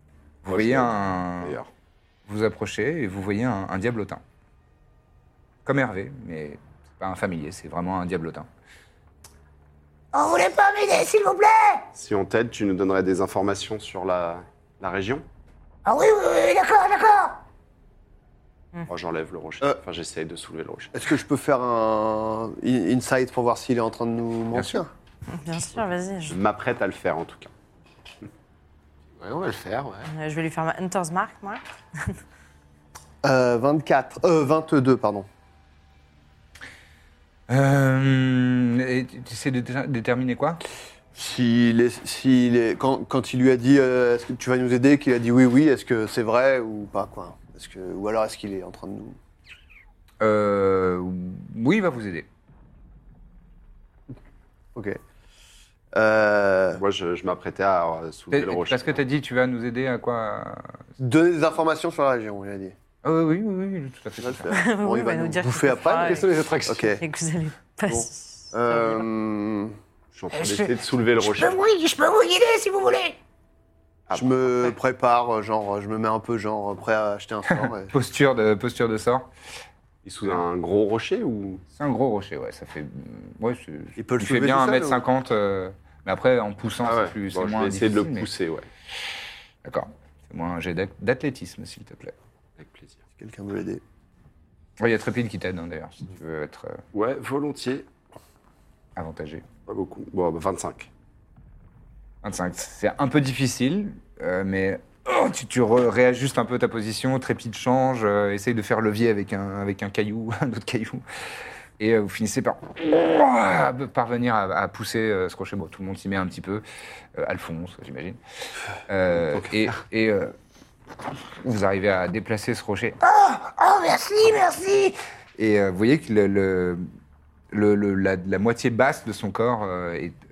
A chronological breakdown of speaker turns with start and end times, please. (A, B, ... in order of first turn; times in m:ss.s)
0:00.4-0:01.6 A
0:00.4-0:01.7 B
0:02.2-0:04.2 A
0:05.6-0:08.5 A
0:10.1-0:11.9 C
0:11.9-0:15.2 B
0:15.8-0:17.4 C
0:18.9-0:20.9 B
0:20.9-0:24.9 D
0:24.5-0:24.8 A
0:25.3-0:26.4 E
0:26.3-0:27.5 B
0:29.2-0:30.1 F
0:30.1-0:32.2 E
0:33.2-0:35.3 D
0:37.5-0:40.6 A
0:41.1-0:49.2 D
0:50.2-0:52.3 A
0:55.9-0:56.8 D
0:56.7-0:59.0 B
0:58.3-1:00.8 A
1:01.0-1:02.7 D
1:03.0-1:04.5 A
1:04.2-1:07.0 D
1:04.5-1:06.3 E
1:05.9-1:07.0 F
1:07.0-1:09.0 E
1:07.9-1:09.8 D
1:10.1-1:11.6 B
1:10.3-1:13.2 C
1:14.1-1:14.8 B
1:14.1-1:17.9 D
1:17.5-1:19.3 A
1:20.0-1:21.6 B
1:21.7-1:28.3 A
1:24.0-1:25.0 D
1:26.8-1:28.7 B
1:29.6-1:32.1 A
1:32.6-1:33.0 B
1:33.2-1:33.8 D
1:34.8-1:36.8 A
1:36.9-1:37.9 B
1:39.0-1:39.4 A
1:39.7-1:40.9 B
1:42.2-1:51.0 A
1:51.8-1:56.6 A
1:57.2-1:58.2 A
1:58.9-2:00.3 A
2:01.4-2:03.0 A
2:03.0-2:05.0 C
2:05.4-2:06.9 A
2:07.5-2:10.2 A